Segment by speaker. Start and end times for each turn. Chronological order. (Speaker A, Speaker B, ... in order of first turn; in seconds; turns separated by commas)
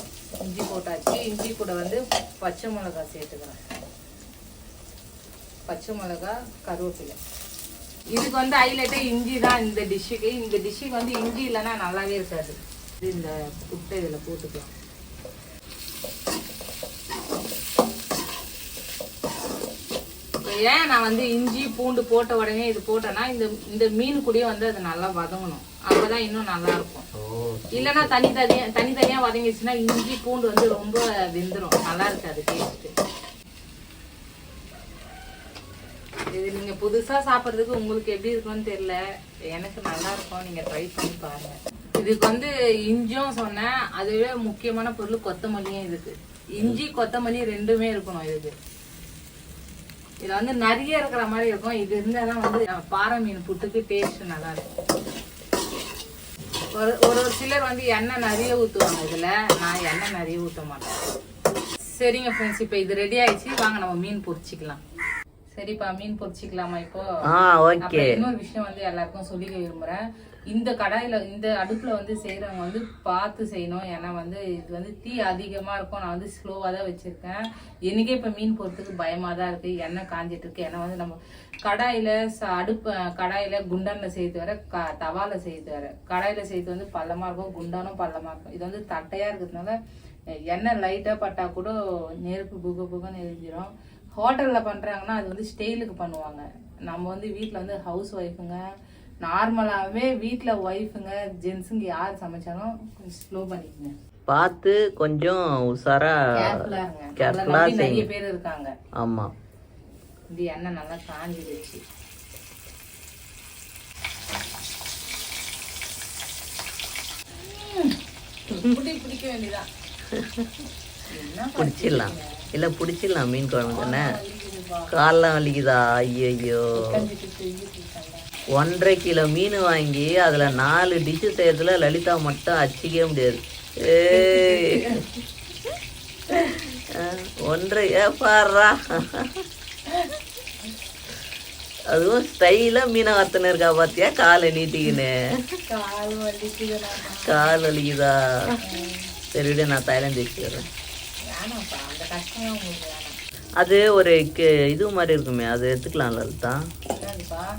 Speaker A: 0.4-3.6, Speaker A: 5.7-7.2, Speaker A: 8.1-14.7, Speaker A: 20.4-27.1, Speaker B: 27.1-28.1, Speaker A: 27.8-32.9, Speaker A: 36.3-39.0, Speaker A: 39.5-48.5, Speaker A: 50.2-54.8, Speaker A: 56.7-61.0, Speaker A: 62.0-64.8, Speaker A: 65.5-67.1, Speaker B: 67.3-68.2, Speaker A: 67.8-89.8, Speaker A: 90.5-98.6, Speaker A: 99.2-103.9, Speaker B: 104.3-106.5, Speaker A: 106.4-108.7, Speaker B: 107.2-108.1, Speaker B: 109.0-109.3, Speaker A: 110.3-111.8, Speaker A: 117.4-118.0, Speaker A: 118.5-119.7, Speaker B: 120.2-120.5, Speaker A: 121.1-122.3, Speaker B: 121.6-124.1, Speaker A: 123.7-124.9, Speaker B: 124.9-126.7, Speaker A: 126.8-128.3, Speaker B: 128.6-134.9, Speaker A: 134.1-135.0, Speaker B: 136.3-139.3, Speaker B: 141.9-145.1, Speaker A: 145.7-147.5, Speaker B: 147.3-148.6, Speaker A: 148.6-149.1, Speaker B: 149.3-150.7, Speaker A: 151.3-153.2, Speaker B: 153.6-156.6, Speaker A: 156.9-157.5